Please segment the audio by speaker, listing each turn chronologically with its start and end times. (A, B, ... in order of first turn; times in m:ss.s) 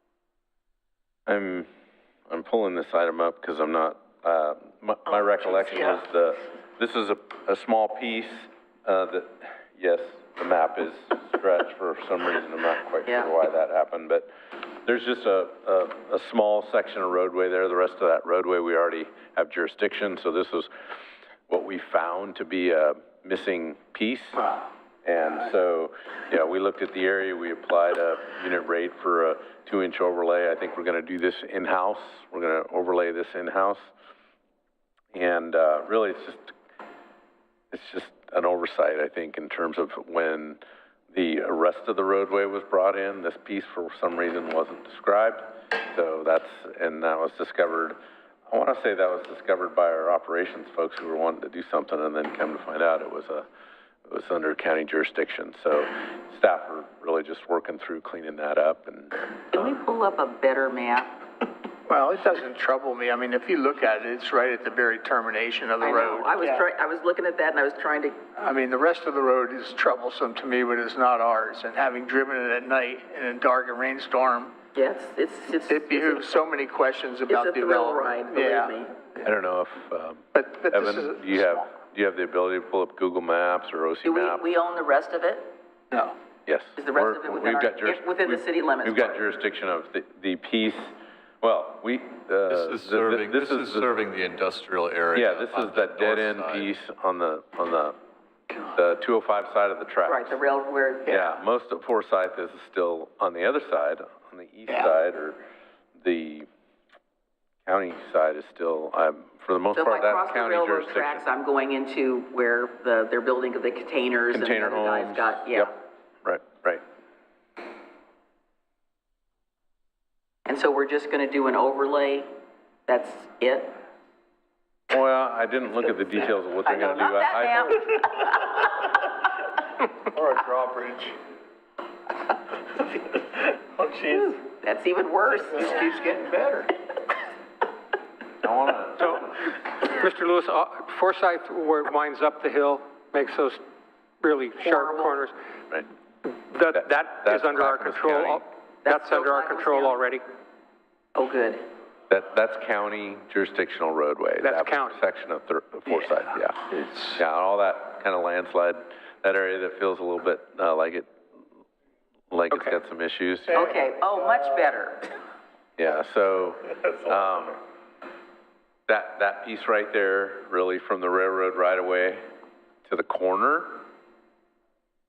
0:01.3-0:01.7 A
0:02.3-0:14.3 A
0:14.8-0:20.7 A
0:21.5-0:24.4 A
0:25.0-0:33.9 A
0:35.1-0:36.5 A
0:37.7-0:40.6 A
0:41.1-0:48.0 A
0:48.5-0:53.4 A
0:54.0-0:59.1 A
0:59.5-1:01.1 B
1:01.9-1:06.6 C
1:05.8-1:08.2 B
1:08.4-1:14.5 C
1:14.7-1:16.3 B
1:15.7-1:18.8 C
1:17.3-1:18.9 B
1:19.2-1:24.5 A
1:20.3-1:21.6 C
1:24.0-1:25.5 B
1:26.4-1:33.9 A
1:26.8-1:29.2 B
1:32.5-1:36.7 D
1:35.1-1:37.9 A
1:38.7-1:40.4 A
1:40.0-1:41.3 B
1:41.1-1:45.4 A
1:46.0-1:46.5 A
1:47.6-1:51.2 A
1:49.7-1:55.7 B
1:54.3-1:55.7 A
1:56.2-1:56.8 A
2:00.4-2:02.3 B
2:02.9-2:03.7 B
2:04.9-2:07.9 A
2:06.6-2:08.7 B
2:10.0-2:11.2 C
2:13.6-2:14.4 C
2:14.3-2:15.9 B
2:15.4-2:16.7 C
2:18.4-2:19.5 A
2:19.8-2:23.6 E
2:24.2-2:25.3 E
2:24.6-2:25.2 B
2:26.2-2:30.2 E
2:26.7-2:28.4 A
2:28.8-2:30.0 B
2:31.1-2:31.6 B
2:32.1-2:41.1 A
2:34.4-2:35.0 E
2:36.7-2:37.2 C
2:42.3-2:43.8 A
2:43.5-2:45.2 B
2:45.8-2:47.6 A
2:48.9-2:52.2 A
2:52.9-2:53.8 A